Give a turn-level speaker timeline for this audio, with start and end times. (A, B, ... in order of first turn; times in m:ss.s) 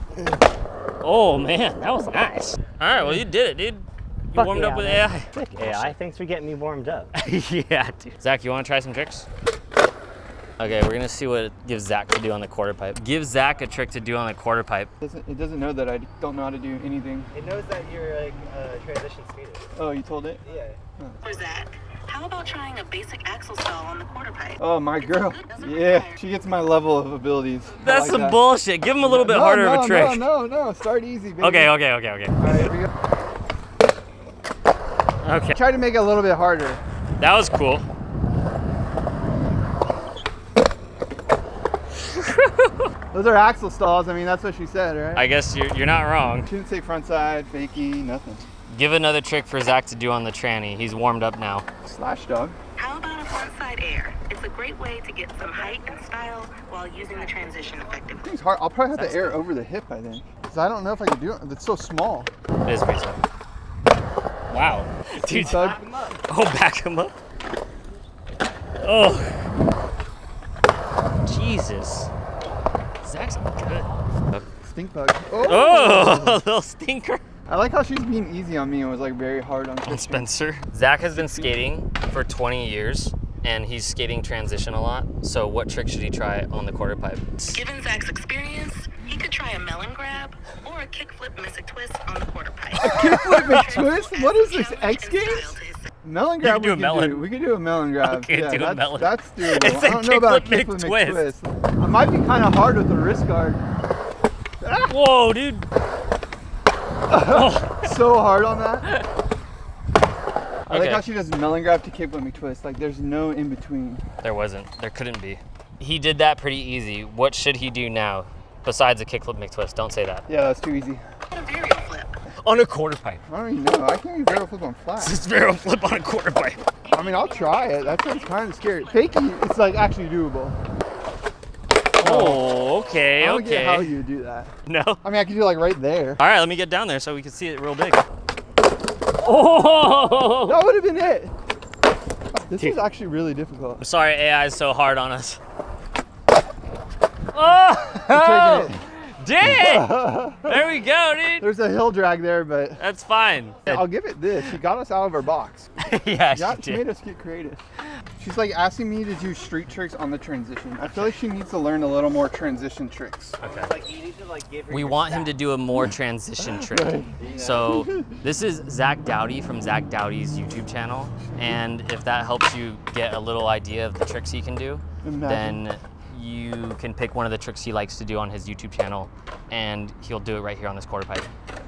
0:01.0-0:06.0 A
0:04.3-0:07.1 B
0:07.1-0:09.3 A
0:10.6-0:14.9 A
0:15.0-0:17.3 C
0:17.3-0:19.7 B
0:19.7-0:20.4 C
0:20.4-0:20.8 B
0:21.2-0:26.2 D
0:24.6-0:28.4 C
0:27.8-0:30.3 A
0:29.0-0:31.7 C
0:31.4-0:32.7 A
0:32.4-0:32.9 C
0:35.2-0:35.6 A
0:35.5-0:36.8 C
0:37.2-0:37.9 A
0:42.1-0:42.7 A
0:43.1-0:45.3 C
0:45.1-0:46.5 A
0:46.4-0:48.4 C
0:48.7-0:51.6 A
0:51.8-0:52.6 C
0:52.8-0:58.3 D
0:57.2-0:57.9 B
0:58.2-1:02.3 C
0:58.9-0:59.4 A
1:02.6-1:03.2 A
1:04.5-1:07.1 A
1:05.2-1:05.8 C
1:05.5-1:06.2 B
1:08.8-1:09.4 A
1:11.2-1:12.1 A
1:13.0-1:14.4 A
1:14.6-1:16.4 C
1:15.4-1:17.2 A
1:17.5-1:20.3 C
1:19.8-1:27.6 A
1:21.1-1:21.6 C
1:27.5-1:35.9 D
1:32.8-1:43.6 C
1:32.8-1:33.7 A
1:36.4-1:37.3 A
1:38.0-1:41.3 A
1:44.6-1:44.9 C
1:44.8-1:45.7 A
1:47.1-1:48.8 C
1:47.2-1:47.9 A
1:50.7-1:51.0 A
1:50.7-1:54.0 C
1:54.2-2:00.2 A
2:00.3-2:01.0 C
2:01.3-2:02.2 D
2:02.4-2:03.2 A
2:03.3-2:05.2 C
2:05.0-2:06.6 A
2:06.8-2:09.0 D
2:06.9-2:10.6 C
2:12.0-2:12.4 C
2:12.0-2:14.0 A
2:13.2-2:16.2 C
2:14.6-2:15.0 A
2:16.2-2:18.0 A
2:19.2-2:20.6 A
2:20.4-2:21.3 C
2:22.3-2:23.8 C
2:23.8-2:25.4 A
2:27.3-2:31.5 A
2:28.0-2:28.8 C
2:29.4-2:30.7 C
2:31.4-2:32.8 C
2:32.8-2:33.9 A
2:33.6-2:35.7 C
2:35.8-2:36.8 A
2:36.3-2:37.6 C
2:38.2-2:43.4 C
2:40.8-2:41.2 A
2:43.4-2:43.8 A
2:43.4-2:45.4 B
2:44.7-3:01.3 A
2:45.9-2:48.2 C
2:47.2-2:47.6 B
2:55.0-2:55.6 C